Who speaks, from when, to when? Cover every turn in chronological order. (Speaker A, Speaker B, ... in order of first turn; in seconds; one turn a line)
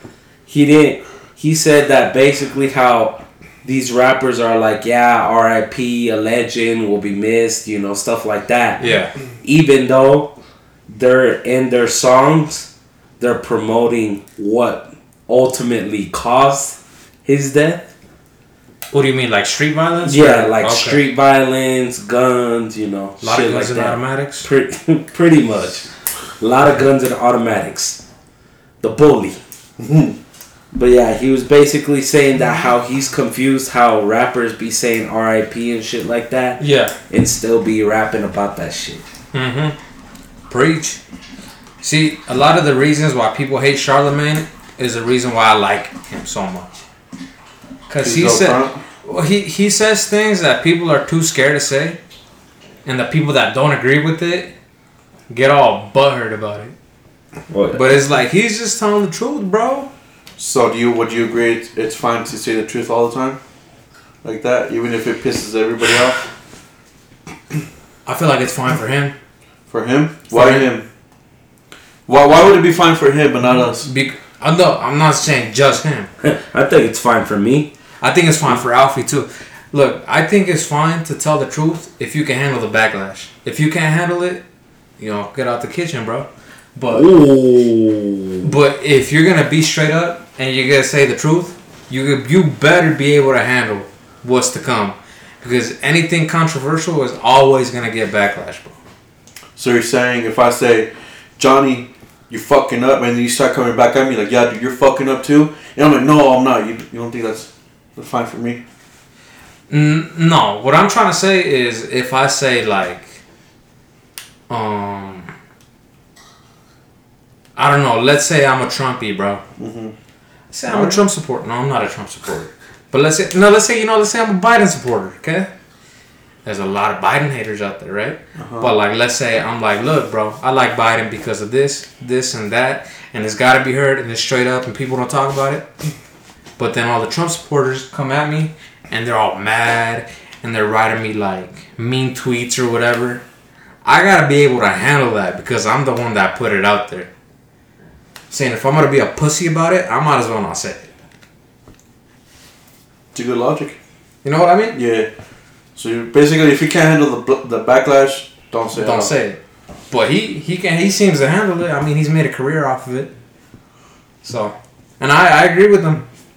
Speaker A: 0.5-8.8
Speaker B: 8.8-9.1
Speaker A: 9.4-10.3
Speaker A: 10.9-17.9
Speaker B: 18.9-21.0
Speaker A: 20.0-25.9
Speaker B: 23.2-24.5
Speaker A: 26.4-28.0
Speaker A: 28.8-29.4
Speaker C: 29.8-30.1
Speaker A: 30.7-39.0
Speaker B: 36.6-36.9
Speaker B: 39.3-39.8
Speaker B: 40.5-41.0
Speaker B: 41.8-46.7
Speaker B: 47.9-52.0
Speaker C: 48.0-48.8
Speaker B: 52.8-54.5
Speaker B: 55.3-56.7
Speaker A: 57.5-57.8
Speaker B: 57.7-59.9
Speaker C: 60.4-63.4
Speaker C: 64.2-66.2
Speaker B: 68.0-69.1
Speaker C: 69.7-70.8
Speaker B: 70.3-70.7
Speaker C: 72.1-73.9
Speaker B: 73.6-76.1
Speaker A: 76.2-77.7
Speaker B: 78.0-84.4
Speaker B: 85.0-87.1
Speaker A: 86.9-88.5
Speaker B: 88.4-98.7
Speaker C: 99.5-108.6
Speaker B: 109.7-113.2
Speaker B: 114.5-115.3
Speaker B: 117.5-119.4
Speaker C: 119.6-119.9
Speaker B: 120.5-125.5
Speaker C: 120.7-121.0
Speaker B: 126.4-135.7
Speaker C: 128.4-128.7
Speaker B: 136.6-143.2
Speaker B: 143.8-147.1
Speaker B: 148.3-150.8
Speaker C: 153.1-153.8
Speaker B: 154.2-154.8
Speaker C: 154.7-155.1
Speaker C: 155.8-159.1
Speaker B: 158.7-163.1
Speaker B: 164.2-166.1